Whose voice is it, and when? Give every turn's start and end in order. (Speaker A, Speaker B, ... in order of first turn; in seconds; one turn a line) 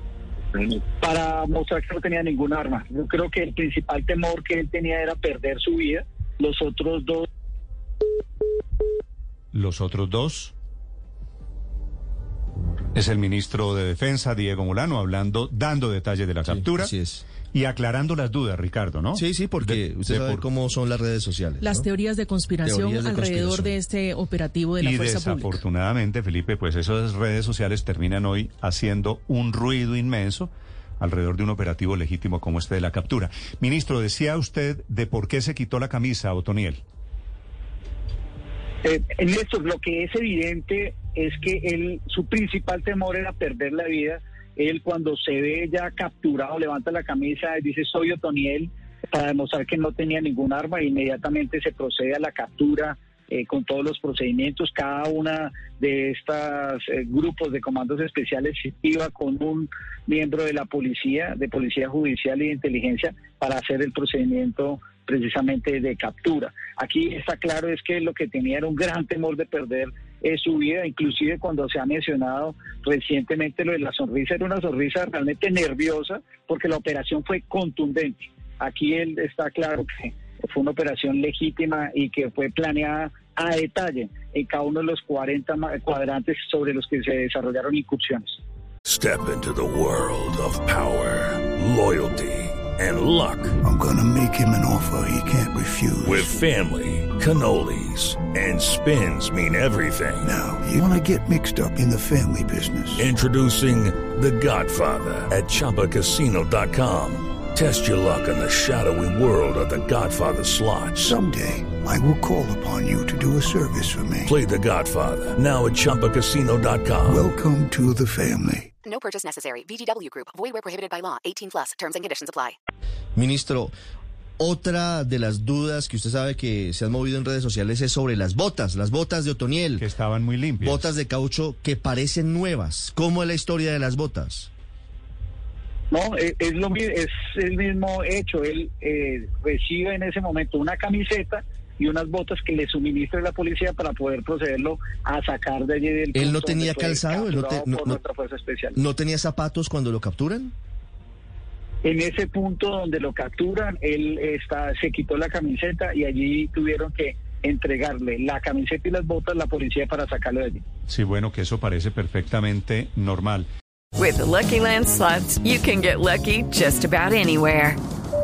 Speaker A: 0.6-7.3
Speaker B: 9.5-10.5
Speaker B: 12.9-16.9
Speaker C: 16.4-17.2
Speaker B: 17.5-20.5
Speaker C: 19.1-21.9
Speaker D: 21.6-25.6
Speaker C: 22.6-23.8
Speaker B: 24.8-36.8
Speaker A: 38.8-88.4
Speaker E: 88.8-93.6
Speaker F: 93.6-96.3
Speaker E: 96.0-100.3
Speaker F: 100.2-103.1
Speaker E: 103.0-111.2
Speaker F: 111.0-114.3
Speaker E: 114.3-117.3
Speaker F: 117.1-118.7
Speaker G: 118.8-122.6
Speaker C: 123.2-123.7
Speaker C: 124.4-129.9
Speaker B: 129.8-130.9
Speaker C: 130.6-134.5
Speaker A: 135.9-148.8
Speaker C: 146.1-148.0
Speaker C: 148.8-150.5
Speaker A: 151.8-160.6
Speaker B: 160.9-163.5
Speaker H: 164.0-167.8